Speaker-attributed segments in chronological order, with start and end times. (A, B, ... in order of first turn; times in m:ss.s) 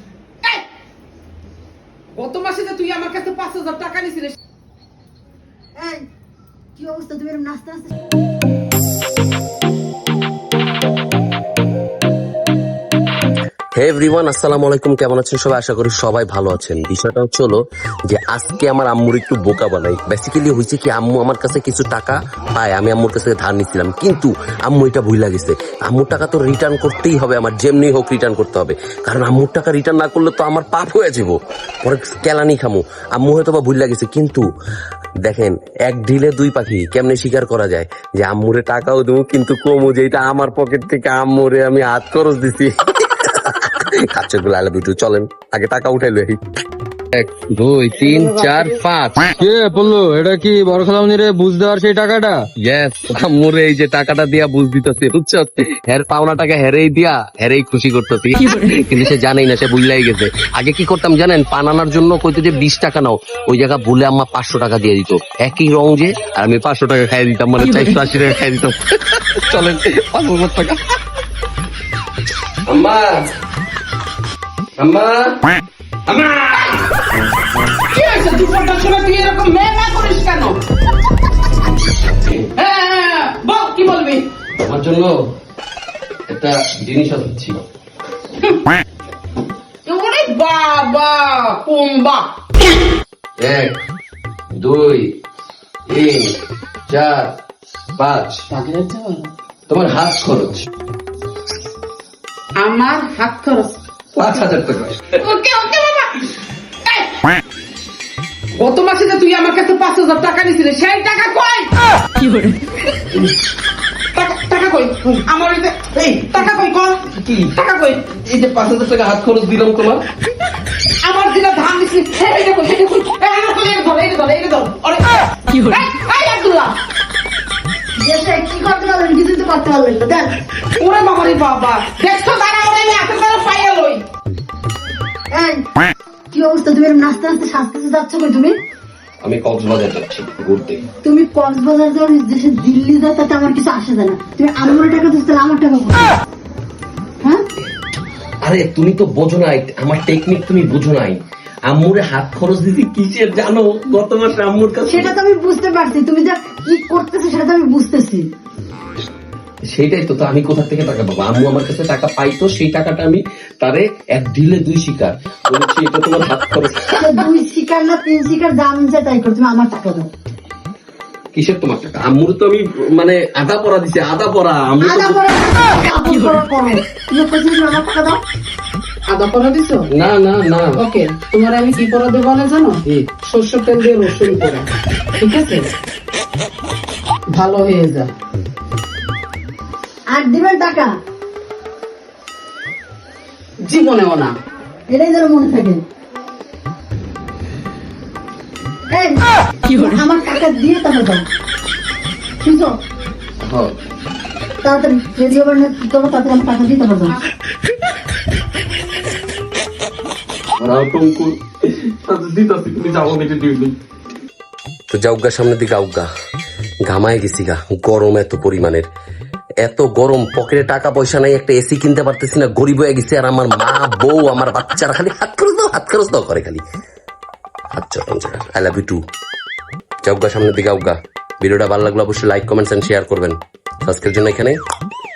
0:02.1-0:04.4 A
0:05.8-0:06.1 B
0:06.8-0:08.0 B
0:13.7-0:34.4 C
0:35.2-0:46.4 C
0:47.1-0:49.3 C
0:49.4-0:52.4 D
0:52.6-1:10.9 C
1:12.7-1:13.2 C
1:14.8-1:15.3 C
1:16.1-1:17.0 C
1:17.9-1:20.6 A
1:22.1-1:22.5 C
1:22.6-1:24.3 A
1:24.6-1:25.1 C
1:26.3-1:27.6 C
1:29.8-1:32.3 A
1:33.4-1:33.8 C
1:34.5-1:35.1 C
1:35.9-1:37.4 C
1:38.0-1:38.4 C
1:38.5-1:39.3 A
1:39.7-1:40.6 C
1:42.6-1:43.8 A
1:44.1-1:45.2 C
1:45.2-1:46.3 A
1:46.8-1:47.3 A
1:48.6-1:52.6 A
1:54.1-1:58.1 A
1:57.1-1:57.5 C
1:58.1-2:00.0 C
2:01.0-2:06.8 A
2:08.0-2:10.3 B
2:10.8-2:14.0 A
2:15.3-2:15.6 B
2:16.3-2:18.5 B
2:19.2-2:20.8 C
2:21.0-2:26.1 B
2:28.4-2:35.1 C
2:34.8-2:38.2 B
2:39.7-2:47.1 C
2:47.0-2:50.1 B
2:51.3-2:55.3 C
2:54.8-2:58.2 B
2:59.1-2:59.9 A
2:59.9-3:00.8 C
3:00.8-3:04.7 A
3:05.2-3:05.7 A
3:07.3-3:08.1 A
3:10.1-3:10.9 B
3:13.6-3:14.4 A
3:14.9-3:15.8 B
3:18.9-3:21.2 B
3:22.4-3:22.7 B
3:23.4-3:23.7 C
3:24.6-3:27.2 B
3:30.6-3:33.7 C
3:34.9-3:36.1 C
3:36.8-3:38.8 C
3:39.6-3:46.6 C
3:47.7-3:49.0 C
3:50.0-3:54.6 C